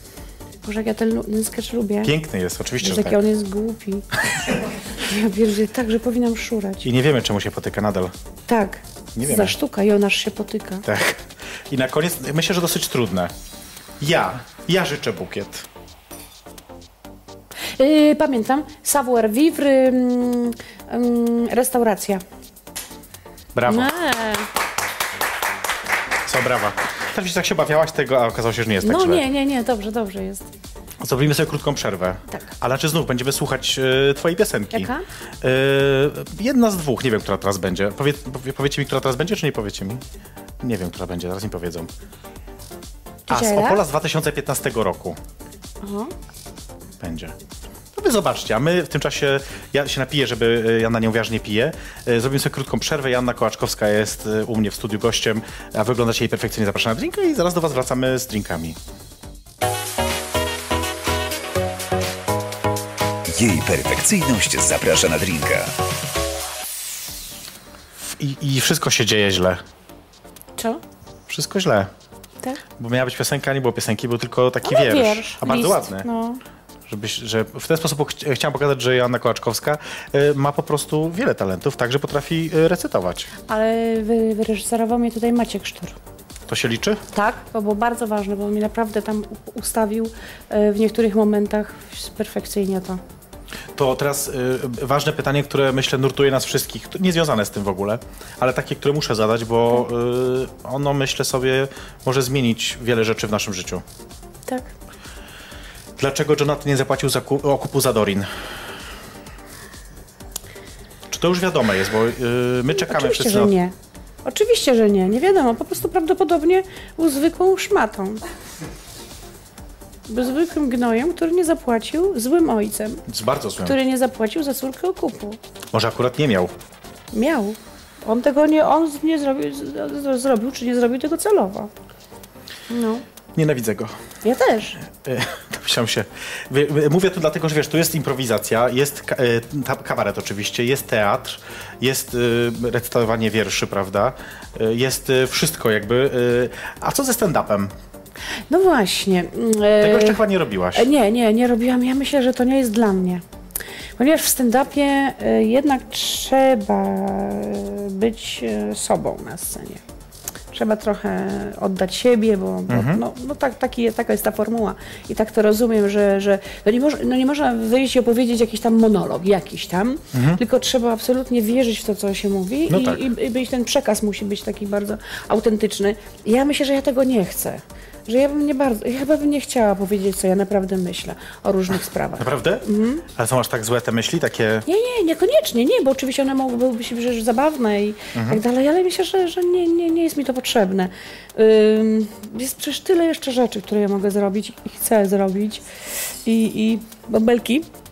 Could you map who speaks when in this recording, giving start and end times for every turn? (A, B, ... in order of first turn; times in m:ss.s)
0:00.6-0:02.1 A
0:02.0-0:03.2 B
0:02.8-0:04.1 A
0:04.9-0:06.9 A
0:06.8-0:08.1 B
0:08.5-0:10.8 A
0:09.2-0:09.6 B
0:10.8-0:13.3 B
0:14.0-0:15.7 B
0:17.8-0:22.2 A
0:23.5-0:23.9 B
0:23.6-0:24.5 A
0:26.2-0:29.3 B
0:28.8-0:30.5 A
0:31.0-0:40.0 B
0:34.7-0:35.0 A
0:40.6-0:41.9 B
0:43.3-0:43.8 A
0:43.3-0:45.2 B
0:45.8-0:46.1 A
0:47.0-0:47.4 B
0:48.0-0:58.8 B
1:03.3-1:05.7 C
1:08.0-1:09.6 B
1:11.3-1:11.9 B
1:12.8-1:16.1 B
1:14.6-1:16.4 A
1:16.9-1:23.3 B
1:23.5-1:26.0 A
1:26.5-1:27.0 B
1:27.1-1:33.0 A
1:33.8-1:43.8 B
1:46.0-1:48.3 B
1:51.1-1:53.5 B
1:52.7-1:53.7 A
1:54.2-1:58.2 A
2:00.1-2:03.0 A
2:03.1-2:03.8 B
2:03.6-2:05.4 A
2:05.7-2:06.5 B
2:07.1-2:11.7 A
2:12.7-2:13.0 A
2:13.4-2:14.0 B
2:14.2-2:14.8 A
2:14.8-2:27.7 B
2:28.5-2:30.2 A
2:29.8-2:30.9 B
2:30.7-2:33.2 A
2:34.0-2:39.8 A
2:40.5-3:03.1 A
2:42.7-2:43.0 B
2:50.1-2:50.4 B
2:52.7-2:53.0 B
3:02.2-3:04.7 B
3:04.7-3:17.7 A
3:08.1-3:08.4 B